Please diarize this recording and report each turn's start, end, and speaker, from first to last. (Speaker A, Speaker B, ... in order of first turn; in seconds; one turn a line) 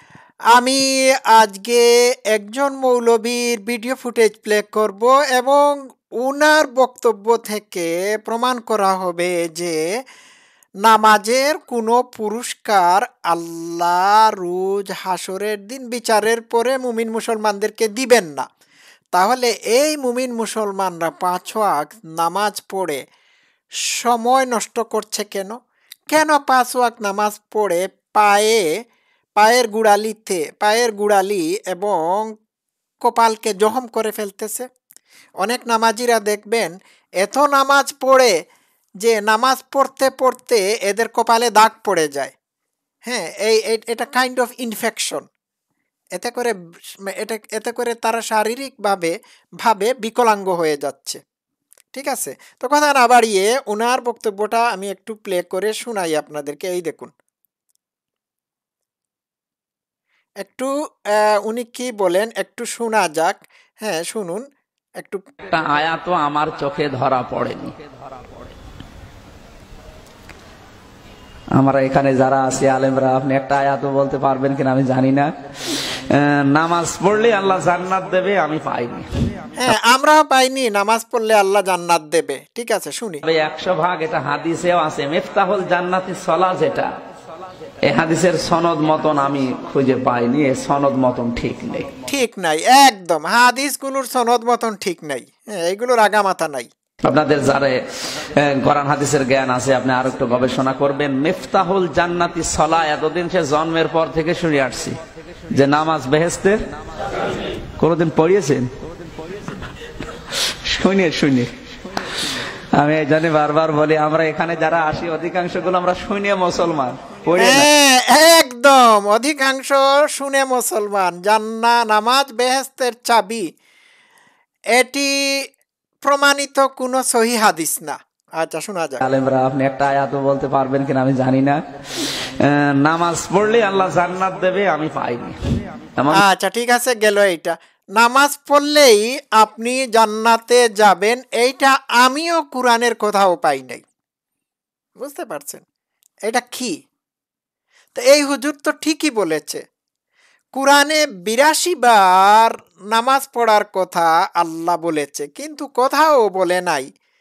Speaker A: 0.5-9.8
Speaker A: 10.8-18.5
Speaker A: 19.1-23.0
Speaker A: 23.9-25.6
Speaker A: 26.1-28.6
Speaker A: 29.4-32.3
Speaker A: 33.0-34.7
Speaker A: 35.4-38.3
Speaker A: 39.0-42.3
Speaker A: 43.0-45.3
Speaker A: 46.1-46.5
Speaker A: 47.0-51.2
Speaker A: 51.9-57.1
Speaker A: 60.4-64.4
Speaker B: 65.5-68.5
Speaker B: 71.5-79.1
Speaker A: 79.5-83.2
Speaker B: 83.2-86.9
Speaker B: 87.8-91.9
Speaker A: 92.1-96.7
Speaker B: 97.0-105.0
Speaker B: 105.5-108.7
Speaker B: 109.2-117.7
Speaker A: 117.4-123.5
Speaker A: 124.8-125.4
Speaker A: 126.0-129.0
Speaker B: 129.0-135.4
Speaker B: 136.0-136.2
Speaker A: 136.1-143.8
Speaker A: 145.0-145.6
Speaker A: 146.3-146.8
Speaker A: 147.9-149.6
Speaker A: 150.5-156.9